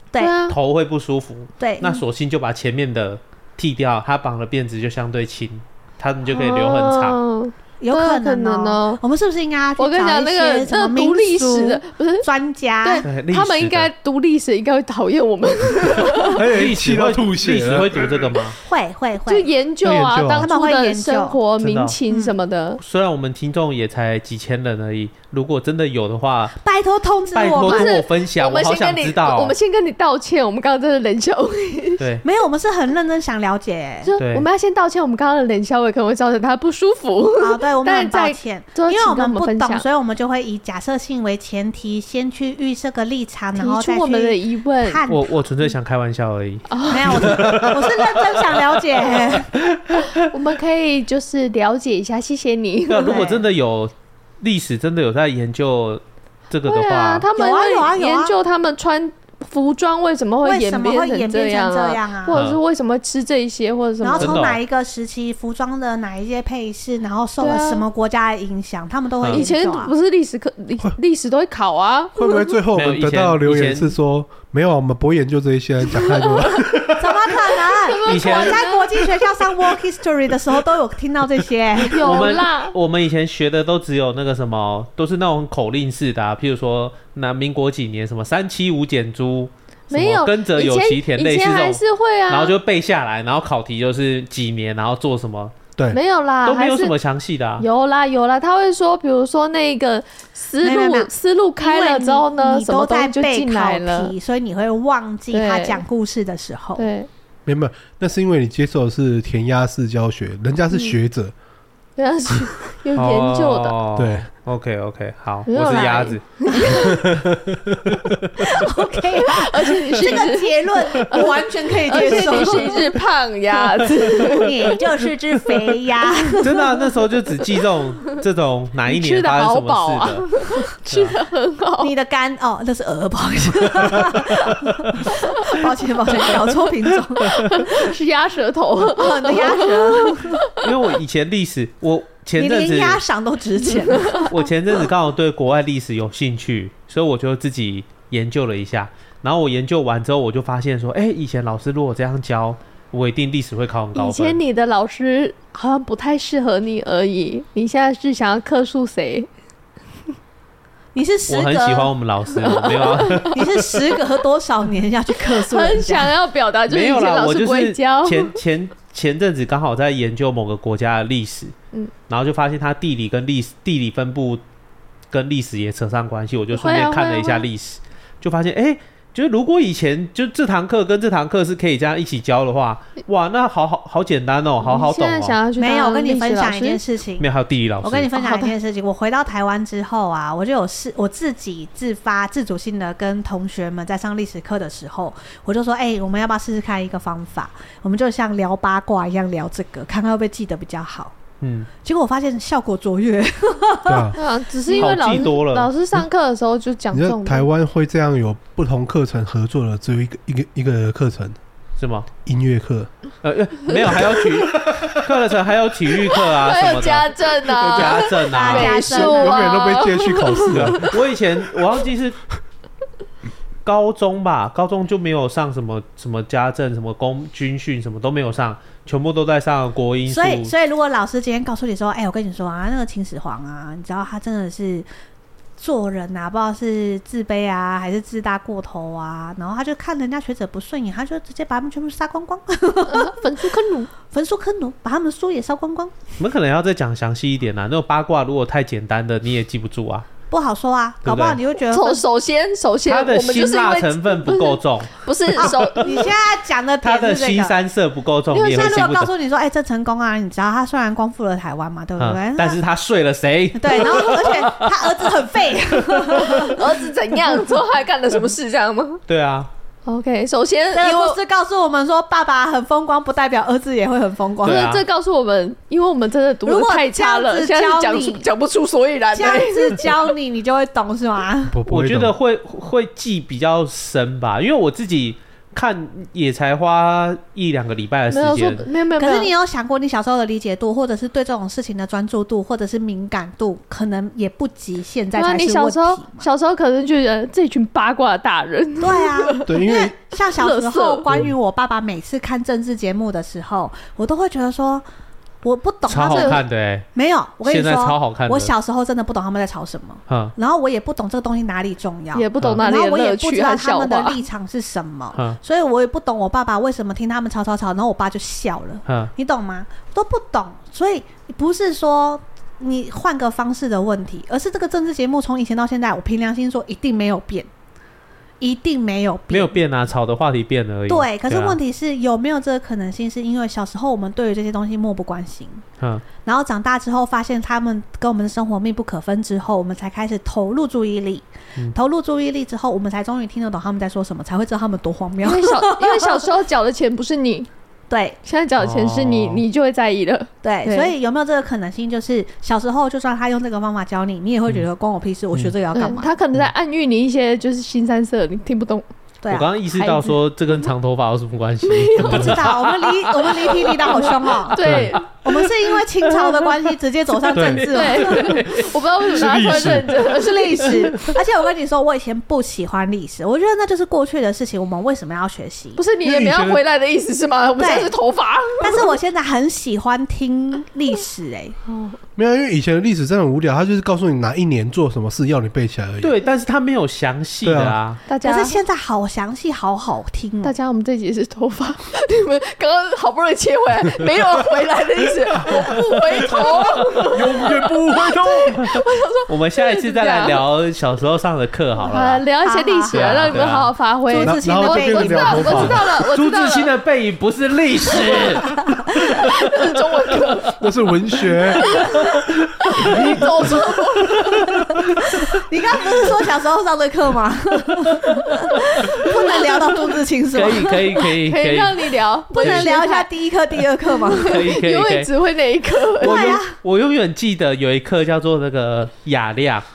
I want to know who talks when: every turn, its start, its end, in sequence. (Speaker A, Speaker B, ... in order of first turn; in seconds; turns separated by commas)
Speaker A: 0.2-0.6, Speaker B: 0.5-7.2, Speaker C: 1.6-2.0, Speaker A: 6.3-9.0, Speaker C: 7.8-13.1, Speaker A: 9.8-12.3, Speaker A: 12.8-16.4, Speaker B: 13.0-13.9, Speaker D: 16.2-18.3, Speaker B: 16.4-18.6, Speaker C: 18.6-19.5, Speaker A: 19.3-22.8, Speaker D: 19.8-20.5, Speaker C: 20.3-21.4, Speaker B: 21.6-22.0, Speaker C: 22.1-22.3, Speaker B: 22.8-26.6, Speaker C: 26.6-27.9, Speaker B: 27.3-29.5, Speaker A: 27.6-32.0, Speaker B: 32.0-32.2, Speaker C: 32.2-34.1, Speaker A: 34.0-39.8, Speaker B: 34.2-34.5, Speaker C: 37.4-45.4, Speaker A: 43.5-45.0, Speaker B: 45.1-50.1, Speaker A: 46.7-47.2, Speaker C: 46.9-49.5, Speaker A: 50.2-53.2, Speaker B: 52.9-57.3, Speaker C: 53.0-53.4, Speaker A: 56.6-64.4, Speaker C: 57.3-58.3, Speaker C: 60.4-62.4, Speaker B: 62.3-62.6, Speaker C: 64.0-69.9, Speaker B: 64.2-64.6, Speaker A: 67.4-67.8, Speaker A: 69.3-72.4, Speaker D: 72.1-76.8, Speaker B: 72.7-74.0, Speaker A: 76.1-76.6, Speaker C: 77.0-82.3, Speaker A: 77.6-79.0, Speaker B: 78.0-78.6, Speaker A: 81.8-82.7, Speaker B: 82.0-95.5, Speaker A: 89.9-92.5, Speaker A: 95.9-96.9, Speaker B: 96.4-97.6, Speaker A: 97.6-104.1, Speaker C: 100.6-106.9, Speaker A: 105.3-105.8, Speaker A: 106.8-107.1, Speaker D: 107.5-111.3, Speaker A: 110.7-111.0, Speaker A: 112.0-113.8, Speaker B: 113.0-116.5, Speaker D: 114.0-114.3, Speaker A: 115.5-117.0, Speaker D: 116.8-118.2, Speaker C: 118.4-123.0, Speaker A: 119.2-124.8, Speaker C: 124.0-126.7, Speaker B: 126.4-130.3, Speaker A: 128.9-131.9, Speaker B: 130.9-131.2, Speaker C: 131.8-137.7, Speaker A: 137.2-140.3, Speaker C: 138.9-140.5, Speaker B: 140.6-143.0, Speaker C: 142.4-144.4, Speaker B: 144.2-154.4, Speaker A: 153.9-159.3, Speaker C: 160.9-161.9, Speaker B: 161.3-163.7, Speaker A: 162.4-163.3, Speaker C: 163.3-166.1, Speaker A: 165.3-168.4, Speaker B: 166.7-171.5, Speaker B: 172.1-174.4, Speaker B: 175.1-185.4, Speaker A: 176.5-177.4, Speaker A: 184.6-186.8, Speaker C: 185.6-187.3, Speaker B: 187.2-188.1, Speaker C: 187.8-201.1, Speaker A: 188.1-188.5, Speaker B: 201.4-201.7, Speaker C: 201.8-204.2, Speaker D: 203.8-204.2, Speaker A: 204.1-207.5, Speaker B: 204.8-205.7, Speaker D: 206.9-211.4, Speaker B: 211.8-212.1, Speaker D: 212.2-212.9, Speaker B: 213.2-218.8, Speaker A: 213.7-214.5, Speaker A: 216.1-220.7, Speaker C: 218.3-219.7, Speaker D: 218.8-221.0, Speaker B: 220.5-222.2, Speaker B: 223.6-230.5, Speaker C: 230.1-234.8, Speaker C: 235.6-243.2, Speaker A: 242.9-243.9, Speaker C: 244.1-245.9, Speaker B: 246.2-250.1, Speaker C: 250.3-252.0, Speaker B: 251.0-251.4, Speaker A: 251.7-256.1, Speaker B: 252.8-255.6, Speaker C: 255.3-257.6, Speaker B: 256.8-259.1, Speaker A: 258.3-258.7, Speaker C: 258.3-262.6, Speaker B: 262.0-265.2, Speaker C: 263.6-266.6, Speaker B: 265.7-266.6, Speaker A: 266.1-269.0, Speaker B: 269.1-269.5, Speaker A: 269.9-271.2, Speaker C: 270.7-274.6, Speaker B: 274.4-274.8, Speaker A: 274.4-279.9, Speaker C: 276.4-278.3, Speaker C: 279.1-281.6, Speaker D: 281.5-282.1, Speaker B: 281.7-288.6, Speaker A: 288.1-289.3, Speaker C: 289.0-296.3, Speaker A: 295.1-301.1, Speaker C: 298.8-304.8, Speaker D: 299.4-300.0, Speaker C: 305.4-327.5, Speaker B: 305.9-306.9, Speaker A: 306.0-306.4, Speaker B: 307.4-308.5, Speaker B: 310.1-310.3, Speaker A: 312.1-314.2, Speaker B: 312.4-312.6, Speaker B: 318.9-319.1, Speaker C: 328.4-329.6, Speaker B: 329.3-331.6, Speaker C: 330.9-335.6, Speaker B: 335.8-336.0, Speaker C: 336.2-346.2, Speaker A: 345.2-347.5, Speaker C: 347.9-348.2, Speaker A: 348.2-350.9, Speaker B: 348.6-349.4, Speaker C: 350.4-356.1, Speaker A: 355.7-358.9, Speaker C: 359.2-359.5, Speaker B: 359.3-362.5, Speaker A: 359.7-360.2, Speaker A: 361.6-365.1, Speaker C: 362.1-368.5, Speaker B: 364.6-365.3, Speaker B: 367.3-369.8, Speaker A: 367.4-370.8, Speaker D: 369.2-369.9, Speaker C: 369.4-375.8, Speaker A: 375.8-378.9, Speaker D: 376.0-376.6, Speaker C: 377.6-377.9, Speaker C: 378.6-381.6, Speaker A: 381.7-382.0, Speaker D: 382.1-386.1, Speaker B: 386.0-388.0, Speaker D: 387.4-387.8, Speaker A: 388.1-388.5, Speaker C: 388.2-390.5, Speaker A: 390.4-400.4, Speaker D: 397.0-398.6, Speaker B: 397.9-402.2, Speaker A: 401.8-406.7, Speaker C: 402.4-403.4, Speaker B: 402.9-403.7, Speaker C: 404.1-405.8, Speaker D: 404.1-405.8, Speaker B: 406.0-408.8, Speaker A: 407.9-408.4, Speaker A: 408.9-410.6, Speaker D: 410.6-411.7, Speaker A: 411.5-414.5, Speaker B: 412.5-413.6, Speaker D: 412.8-413.2, Speaker B: 414.4-415.2, Speaker C: 415.0-420.9, Speaker B: 420.3-422.7, Speaker A: 421.0-423.1, Speaker C: 422.3-424.4, Speaker A: 423.9-426.4, Speaker B: 424.1-425.1, Speaker C: 426.0-426.6, Speaker B: 426.0-429.6